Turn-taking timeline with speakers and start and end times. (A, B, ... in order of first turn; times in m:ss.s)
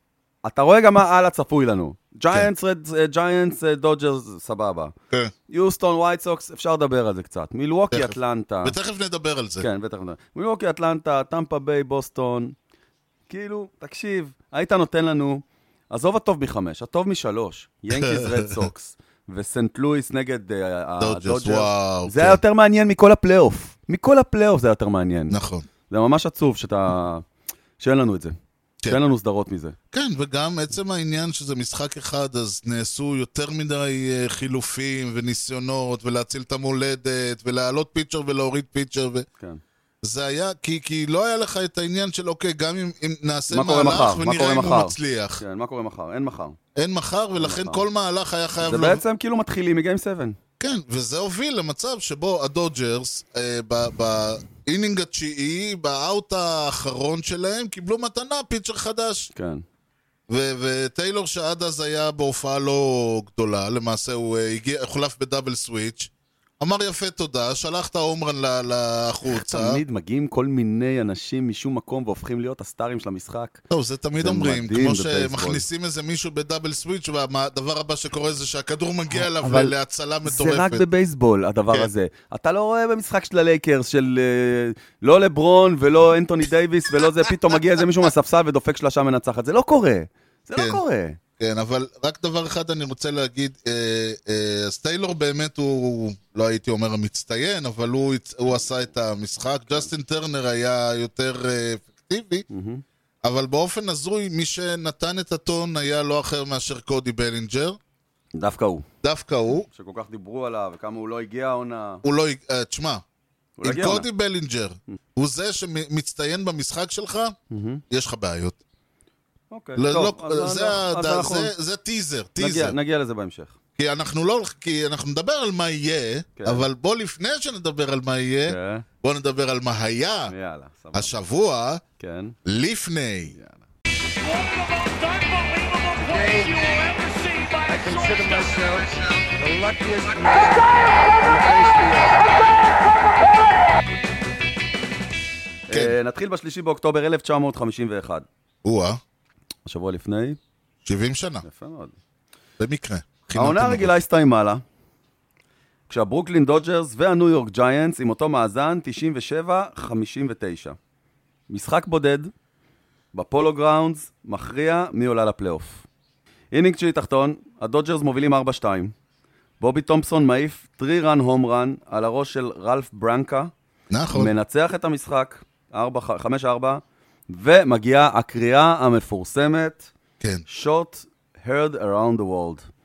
0:00.4-0:04.9 A
0:05.5-0:08.8 A
0:07.9-0:09.7 B
0:09.6-0:12.5 A
0:13.3-0:25.4 A
0:17.9-0:18.7 B
0:21.0-0:22.4 B
0:25.3-0:25.7 B
0:25.9-0:27.2 A
0:27.8-0:28.4 A
0:28.9-0:29.8 A
0:29.9-0:39.2 B
0:40.0-0:45.4 B
0:43.5-0:46.6 A
0:46.8-0:49.0 B
0:47.4-0:47.8 A
0:48.6-0:50.4 A
0:50.6-0:59.3 B
0:59.3-0:59.6 A
1:00.3-1:09.8 B
1:09.3-1:13.6 A
1:13.7-1:20.8 B
1:14.2-1:15.6 A
1:19.1-1:31.2 A
1:30.6-1:30.8 B
1:31.4-1:42.4 B
1:42.5-1:42.8 A
1:43.2-1:47.8 B
1:48.3-1:48.8 A
1:49.0-1:49.7 B
1:49.7-1:52.0 A
1:52.0-1:53.0 B
1:53.6-1:54.1 A
1:53.6-1:57.4 B
1:57.5-1:57.8 A
1:57.9-1:58.6 B
1:59.5-2:01.5 A
1:59.8-2:02.8 B
2:02.4-2:03.5 A
2:03.8-2:10.3 B
2:06.4-2:06.7 A
2:08.5-2:08.8 A
2:10.3-2:11.1 A
2:10.9-2:11.8 B
2:12.0-2:12.4 A
2:12.4-2:13.4 B
2:13.3-2:13.6 A
2:14.2-2:22.2 C
2:17.7-2:18.8 A
2:25.7-2:28.2 A
2:25.7-2:26.0 B
2:28.6-2:29.0 B
2:29.6-2:30.4 A
2:30.8-2:31.4 B
2:31.4-2:32.0 A
2:32.6-2:34.0 B
2:33.3-2:34.6 A
2:35.9-2:40.8 A
2:41.5-2:42.3 A
2:43.1-2:45.8 A
2:46.5-2:48.9 A
2:49.6-2:53.5 A
2:53.9-2:54.3 B
2:54.1-2:59.9 A
3:00.5-3:02.7 A